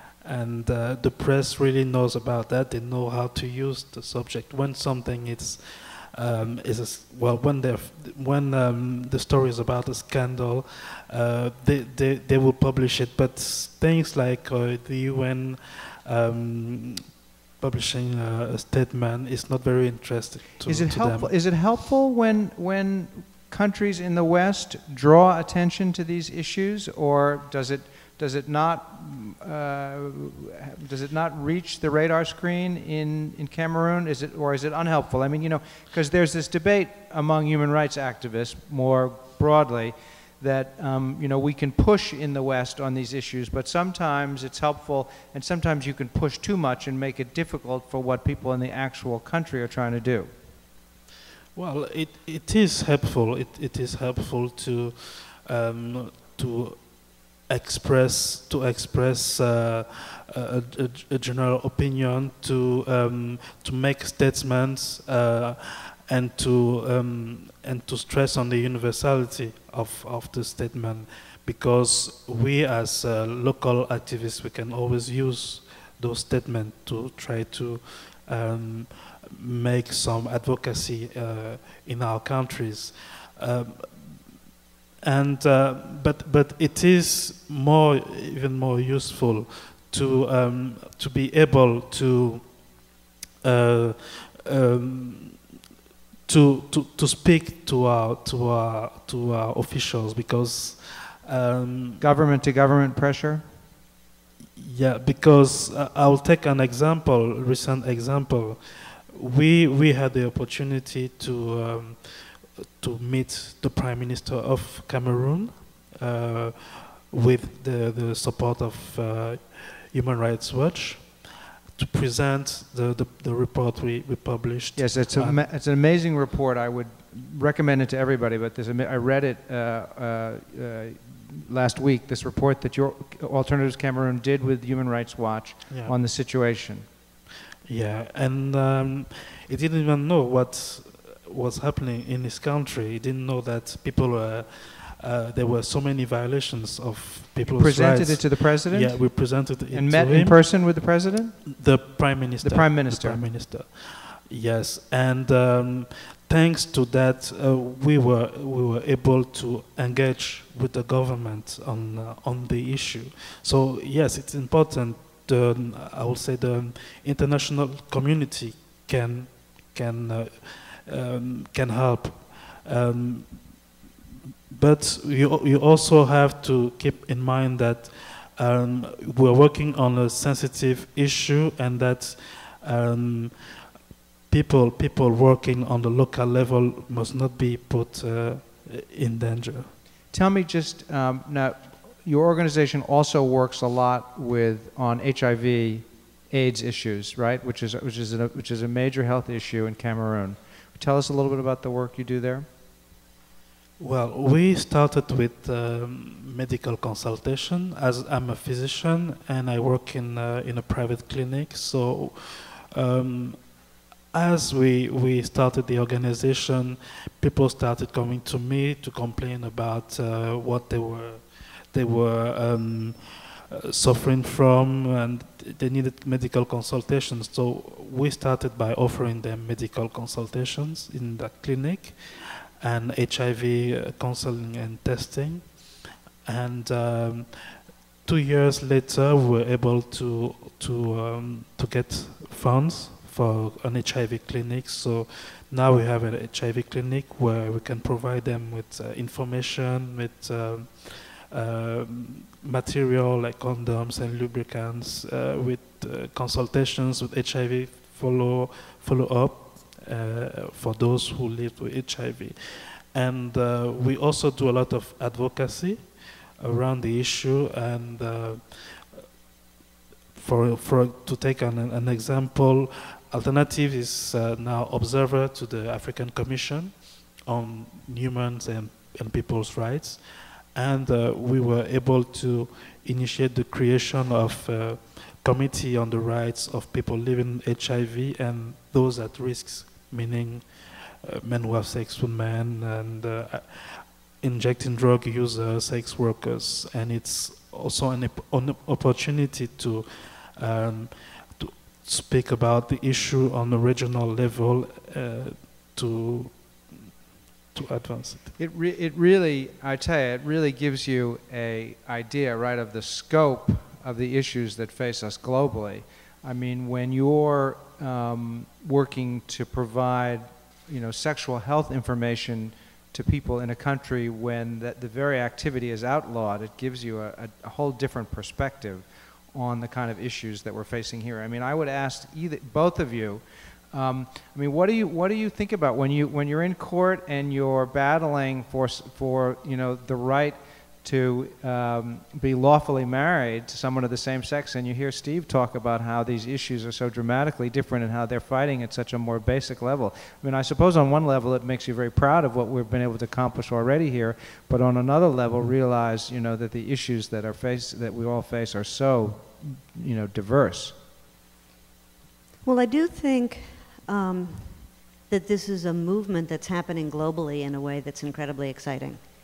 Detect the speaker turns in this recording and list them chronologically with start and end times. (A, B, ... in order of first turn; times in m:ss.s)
0:00.2-0:21.3 A
0:20.6-0:50.3 B
0:51.5-1:24.3 A
1:25.0-1:32.8 A
1:33.4-1:35.4 A
1:36.2-1:42.0 A
1:42.0-1:43.4 B
1:44.6-2:05.4 A
2:04.8-2:16.8 B
2:17.6-2:30.6 A
2:27.5-2:31.5 B
2:31.5-2:53.6 A
2:32.4-2:33.2 B
2:54.5-3:03.6 A
3:04.3-3:09.7 A
3:10.1-3:22.5 B
3:23.8-3:33.5 A
3:34.1-4:28.9 A
4:30.1-5:06.9 A
5:07.5-5:08.3 A
5:08.4-6:00.7 B
6:02.4-6:09.0 C